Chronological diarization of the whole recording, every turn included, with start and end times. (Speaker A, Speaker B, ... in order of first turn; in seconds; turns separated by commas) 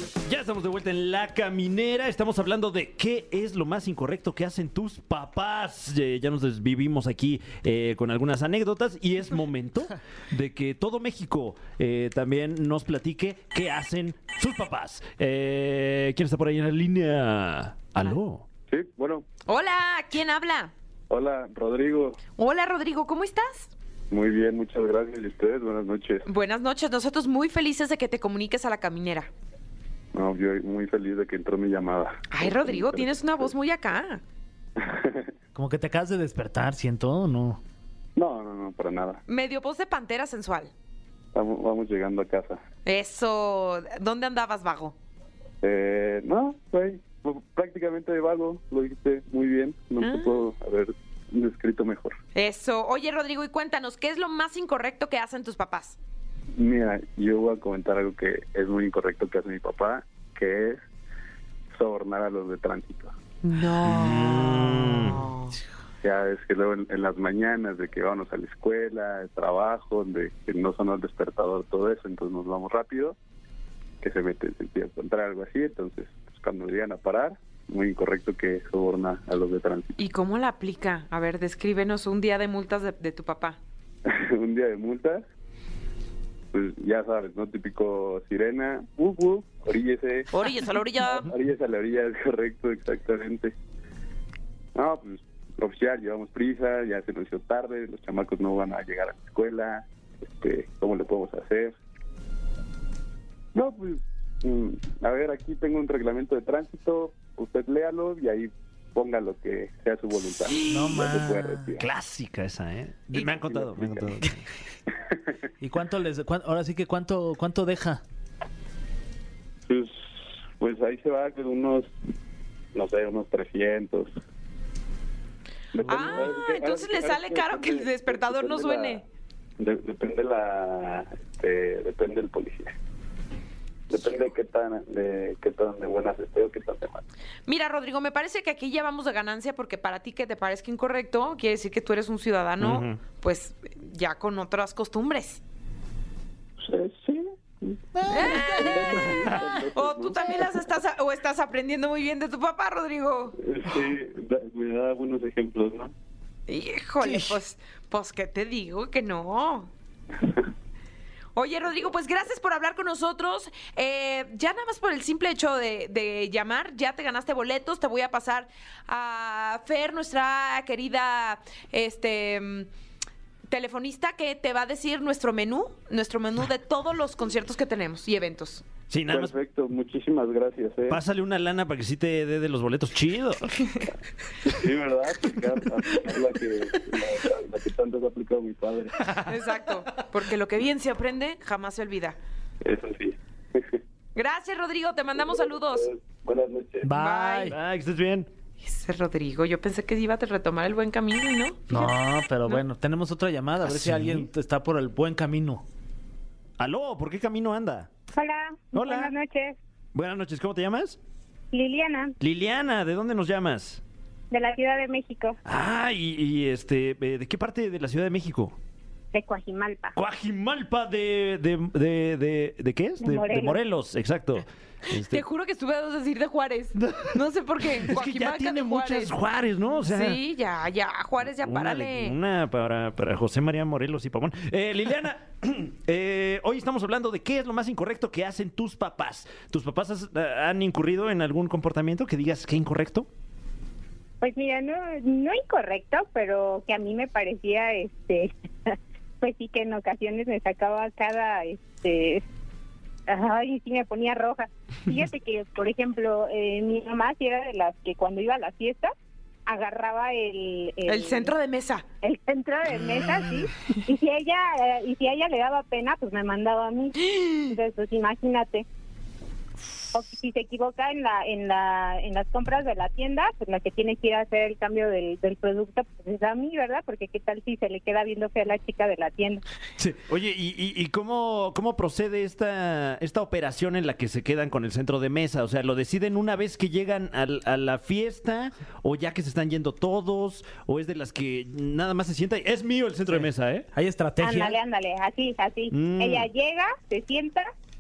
Speaker A: 0.2-18.5, Speaker B: 18.7-19.3, Speaker C: 19.5-20.7, Speaker B: 21.1-22.2, Speaker C: 22.4-23.7, Speaker B: 24.1-26.2, Speaker C: 26.3-29.3, Speaker B: 30.1-33.5, Speaker C: 32.3-34.2, Speaker B: 34.8-35.3, Speaker D: 35.5-37.6, Speaker B: 38.2-39.2, Speaker C: 39.3-40.7, Speaker B: 41.3-42.6, Speaker C: 42.9-45.0, Speaker B: 45.6-52.2, Speaker C: 50.0-50.5, Speaker C: 52.4-56.0, Speaker B: 56.6-60.8, Speaker B: 61.8-63.1, Speaker C: 63.4-65.5, Speaker A: 63.8-65.3, Speaker B: 66.0-73.2, Speaker B: 74.0-80.0, Speaker C: 80.0-83.6, Speaker B: 84.1-85.2, Speaker B: 86.5-90.3, Speaker C: 90.3-91.3, Speaker B: 91.0-93.5, Speaker B: 94.8-101.8, Speaker B: 103.5-111.9, Speaker C: 110.5-111.1, Speaker D: 110.7-111.8, Speaker A: 111.8-114.5, Speaker B: 113.2-114.2, Speaker D: 115.6-118.0, Speaker B: 119.7-121.9, Speaker B: 122.8-124.1, Speaker B: 125.7-129.0, Speaker C: 125.9-129.0, Speaker B: 129.6-132.7, Speaker B: 133.9-137.0, Speaker C: 137.5-145.4, Speaker A: 142.6-143.0, Speaker B: 146.6-147.8, Speaker D: 147.9-149.7, Speaker C: 148.1-153.4, Speaker B: 148.4-150.6, Speaker B: 153.4-155.9, Speaker C: 156.5-159.7, Speaker D: 157.0-157.4, Speaker C: 161.3-172.7, Speaker C: 173.5-178.6, Speaker A: 178.9-179.3, Speaker B: 179.1-181.0, Speaker A: 180.9-183.7, Speaker B: 184.4-189.2, Speaker C: 189.2-192.2, Speaker B: 192.6-193.8, Speaker C: 194.2-195.9, Speaker B: 195.2-196.9, Speaker D: 196.8-197.6, Speaker C: 196.9-197.5, Speaker A: 197.5-198.3, Speaker C: 198.6-202.6, Speaker D: 201.7-205.6, Speaker A: 203.7-204.3, Speaker A: 206.6-207.9, Speaker E: 208.2-209.6, Speaker A: 208.7-209.1, Speaker A: 209.9-211.0, Speaker E: 211.5-212.1, Speaker A: 212.2-213.8, Speaker E: 214.3-215.4, Speaker A: 215.5-218.6, Speaker E: 219.1-219.9, Speaker A: 219.9-225.2, Speaker E: 223.0-223.6, Speaker C: 224.9-229.2, Speaker A: 226.8-227.2, Speaker A: 227.8-230.2, Speaker C: 229.8-232.2, Speaker A: 231.3-243.1, Speaker E: 244.2-252.2, Speaker E: 253.1-258.9, Speaker E: 259.5-261.3, Speaker C: 260.9-261.9, Speaker E: 262.0-268.7, Speaker C: 267.1-267.5, Speaker E: 269.9-279.4, Speaker A: 279.8-293.7, Speaker D: 293.1-294.6, Speaker E: 294.2-297.5, Speaker A: 295.7-296.3